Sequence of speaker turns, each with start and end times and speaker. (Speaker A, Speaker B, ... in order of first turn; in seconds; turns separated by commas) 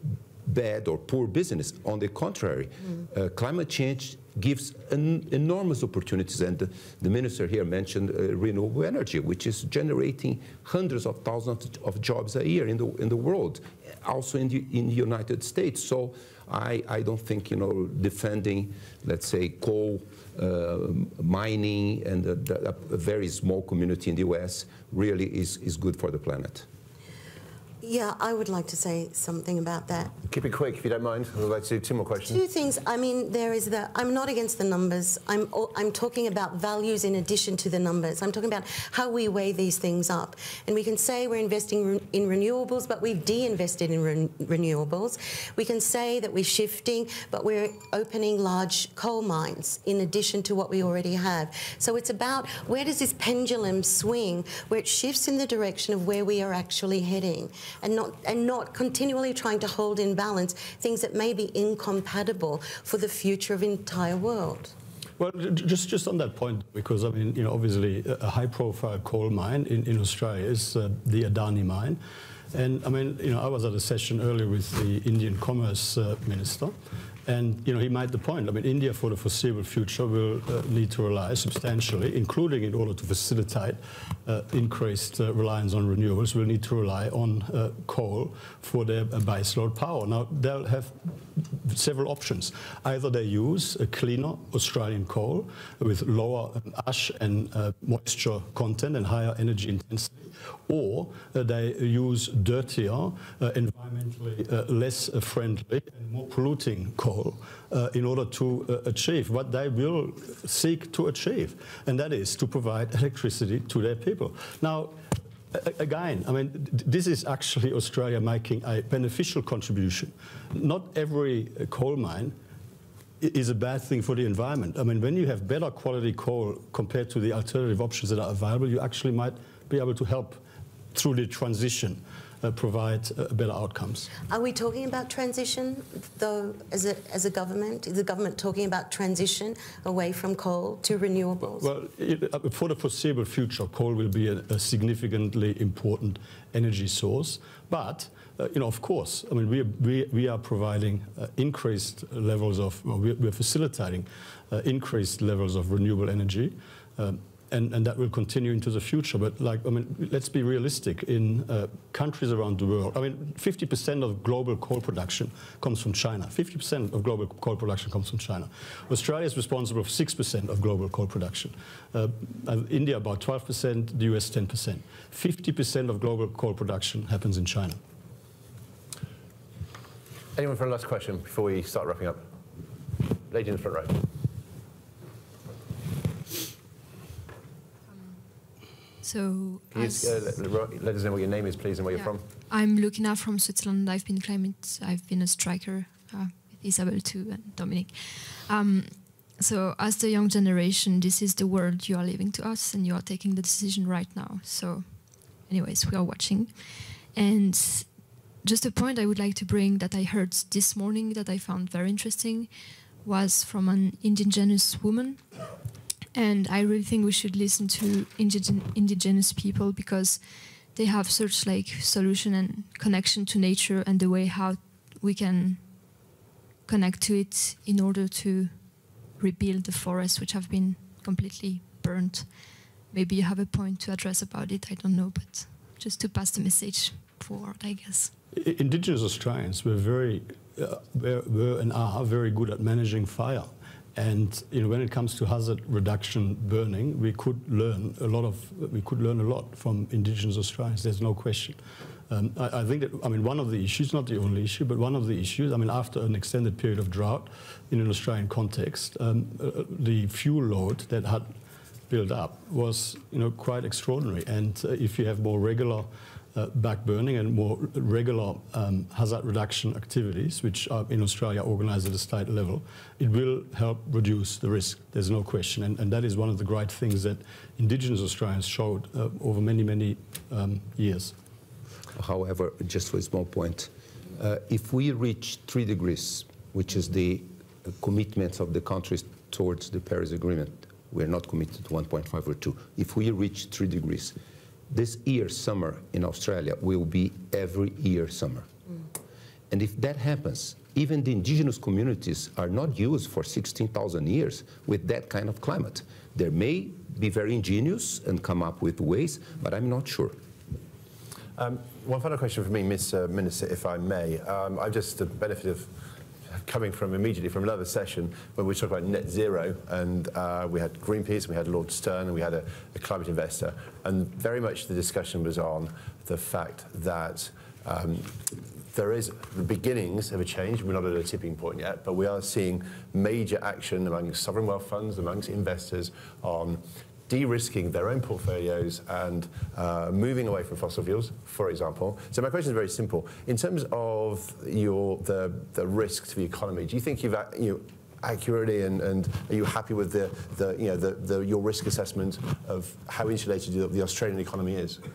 Speaker A: 0.4-26.6, Speaker B: 27.8-30.1, Speaker C: 30.3-32.4, Speaker B: 32.3-64.7, Speaker D: 65.2-72.0, Speaker D: 72.5-115.0, Speaker D: 115.5-122.3, Speaker D: 123.2-130.4, Speaker D: 130.9-134.1, Speaker B: 134.3-141.7, Speaker D: 141.6-177.8, Speaker C: 180.3-182.2, Speaker C: 183.3-184.1, Speaker E: 187.9-188.4, Speaker E: 189.0-190.3, Speaker C: 189.7-192.3, Speaker E: 191.9-212.5, Speaker E: 213.0-215.3, Speaker E: 216.1-238.1, Speaker D: 238.3-251.6, Speaker D: 252.1-261.3, Speaker D: 261.9-281.1, Speaker A: 281.9-294.1, Speaker A: 294.7-298.5, Speaker A: 299.5-310.2, Speaker C: 311.4-315.7, Speaker C: 316.3-354.8